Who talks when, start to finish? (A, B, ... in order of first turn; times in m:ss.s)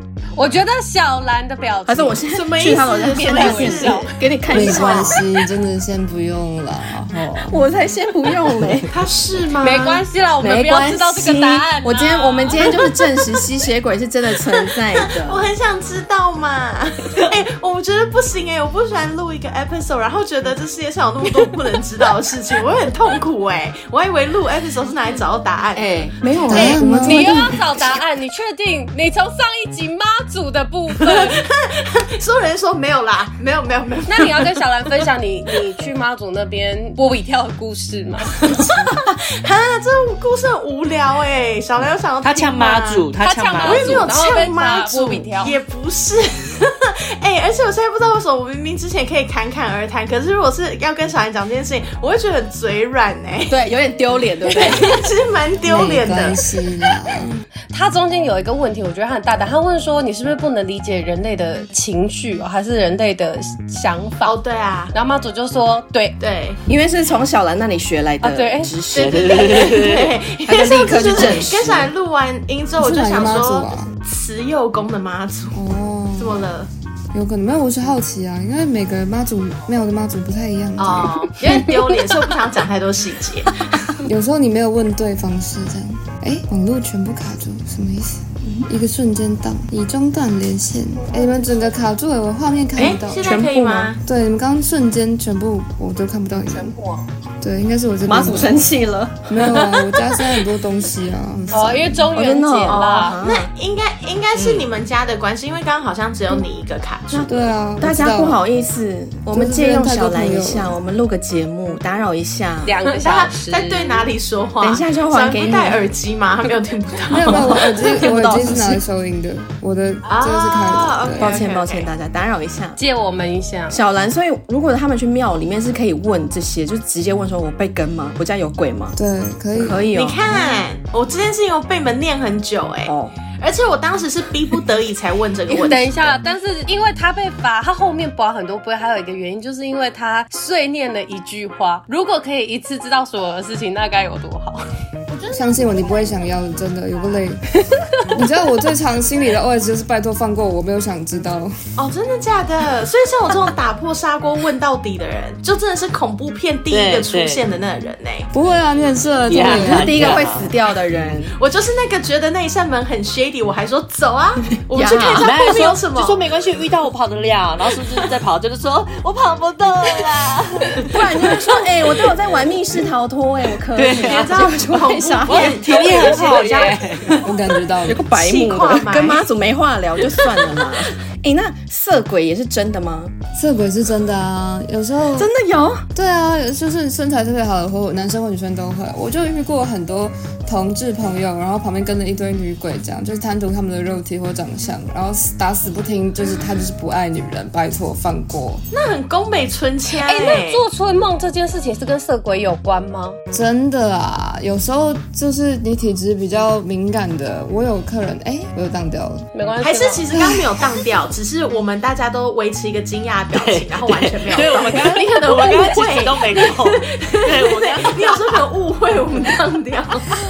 0:00.4-0:02.3 A
0:01.8-0:05.2 B
0:02.3-0:04.1 C
0:03.1-0:04.2 A
0:04.5-0:07.6 D
0:04.6-0:05.1 C
0:07.4-0:08.9 B
0:08.9-0:10.0 C
0:09.6-0:12.9 A
0:10.4-0:15.5 B
0:12.6-0:12.9 C
0:14.6-0:26.7 C
0:25.7-0:27.9 B
0:26.5-0:27.4 D
0:26.5-0:31.4 A
0:31.0-0:34.6 C
0:34.1-0:38.5 A
0:38.4-0:53.6 C
0:42.2-0:44.1 E
0:43.2-0:45.6 A
0:53.5-0:55.0 B
0:54.4-0:56.4 C
0:55.6-0:57.4 D
0:57.7-1:04.4 A
1:04.2-1:04.9 C
1:04.9-1:06.2 A
1:06.2-1:06.6 C
1:06.7-1:09.7 B
1:08.2-1:08.7 A
1:08.9-1:10.2 E
1:08.9-1:15.6 C
1:10.4-1:11.9 B
1:12.8-1:13.9 D
1:15.5-1:16.4 D
1:16.2-1:16.7 C
1:17.1-1:21.3 D
1:20.8-1:23.6 C
1:24.0-1:33.4 D
1:32.7-1:34.0 C
1:33.2-1:33.9 B
1:34.0-1:36.8 D
1:37.4-1:38.7 D
1:38.0-1:39.8 B
1:39.3-1:42.1 D
1:41.5-1:43.2 A
1:42.1-1:43.5 B
1:42.7-1:47.3 C
1:44.3-1:44.7 E
1:47.1-1:52.8 B
1:47.3-1:48.4 D
1:49.3-1:50.7 D
1:52.6-1:54.0 A
1:52.9-1:57.8 C
1:54.6-1:55.8 B
1:57.1-2:01.3 D
1:57.2-1:58.8 B
2:00.0-2:01.9 C
2:01.2-2:02.8 B
2:02.8-2:03.8 A
2:03.7-2:09.0 B
2:09.0-2:09.9 D
2:09.5-2:10.2 B
2:09.9-2:16.1 C
2:12.8-2:13.1 B
2:15.5-2:24.6 A
2:25.3-2:27.4 D
2:27.8-2:28.2 A
2:28.1-2:31.5 D
2:31.8-2:38.3 C
2:36.7-2:37.4 E
2:38.3-2:40.2 D
2:39.3-2:41.2 E
2:39.4-2:41.3 B
2:41.4-2:46.2 C
2:44.7-2:45.3 B
2:45.2-2:52.1 E
2:50.9-2:56.1 B
2:53.7-2:54.5 E
2:53.9-2:57.1 C
2:55.2-2:57.2 E
2:57.2-2:58.0 D
2:57.8-3:03.1 B
2:58.1-2:59.3 C
3:03.4-3:05.3 D
3:05.2-3:05.8 B
3:05.9-3:18.6 D
3:18.7-3:20.6 C
3:20.0-3:23.2 A
3:23.3-3:29.3 D
3:29.3-3:30.0 A
3:29.6-3:40.1 C
3:30.1-3:30.5 D
3:33.3-3:38.4 E